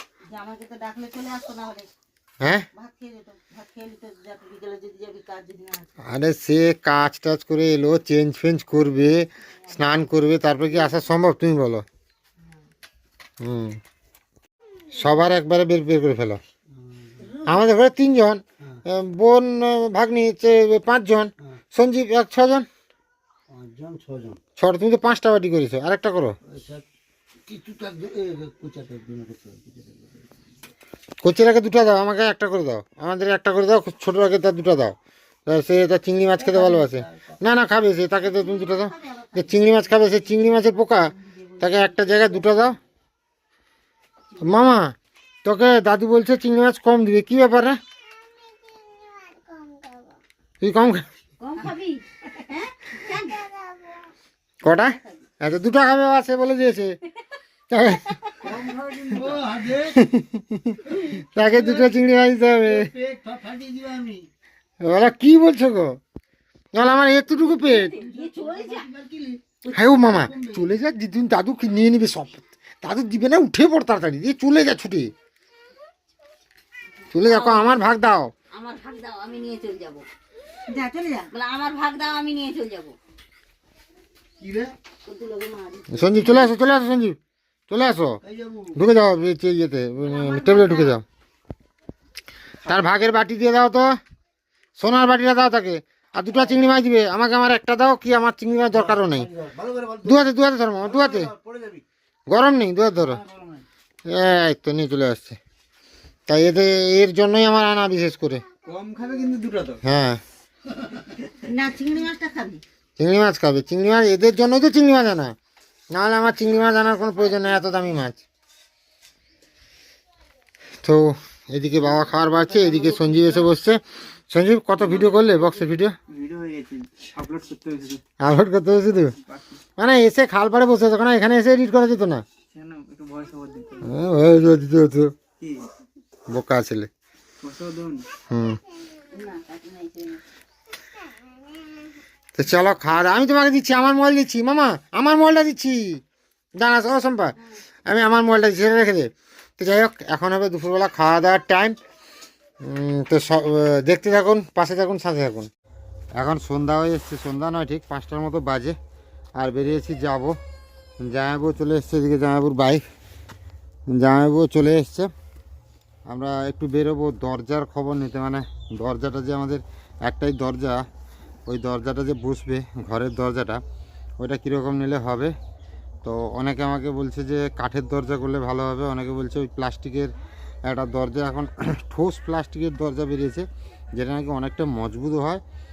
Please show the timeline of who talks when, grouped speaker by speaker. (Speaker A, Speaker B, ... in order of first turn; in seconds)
Speaker A: 0.3-1.9, 2.7-5.9, 38.1-42.5, 44.3-44.8, 48.9-50.1, 51.4-54.1, 54.7-55.2, 58.3-59.4, 67.7-68.9, 69.7-69.9, 77.2-77.8, 78.5-80.0, 80.7-83.0, 85.0-86.5, 90.0-91.0, 111.4-112.6, 139.1-140.2
Speaker B: 2.4-2.6, 6.0-11.8, 13.4-13.8, 14.9-16.4, 17.4-22.7, 24.6-26.4, 31.2-42.8, 44.4-44.9, 45.4-47.8, 50.6-51.0, 54.6-57.0, 57.7-58.2, 60.0-60.8, 61.3-62.9, 64.8-66.0, 66.7-68.0, 69.7-75.1, 77.1-78.3, 85.9-87.2, 87.7-88.2, 88.8-91.0, 92.7-94.0, 94.8-99.3, 100.0-101.3, 102.3-103.2, 104.1-105.4, 106.3-108.4, 109.8-110.2, 113.0-115.3, 115.9-118.2, 120.8-125.9, 128.2-129.1, 129.8-132.2, 133.8-135.1, 136.3-136.9, 138.3-138.6, 142.3-146.0, 146.6-147.3, 147.9-151.8, 152.6-155.5, 156.2-158.8, 159.4-160.4, 161.0-162.8, 163.9-165.1, 166.1-170.8, 171.5-173.6, 174.2-175.3, 176.0-180.1, 180.7-185.4
Speaker C: 16.7-17.3, 23.5-24.4, 26.4-26.8, 27.4-30.3, 36.4-37.4, 58.4-60.0, 60.9-62.0, 62.6-64.3, 67.7-70.7, 84.4-84.7, 88.2-88.8, 98.7-101.8, 103.0-103.6
Speaker D: 122.7-123.3, 124.8-125.5, 126.1-128.0, 129.2-129.6, 132.5-133.9, 137.4-138.0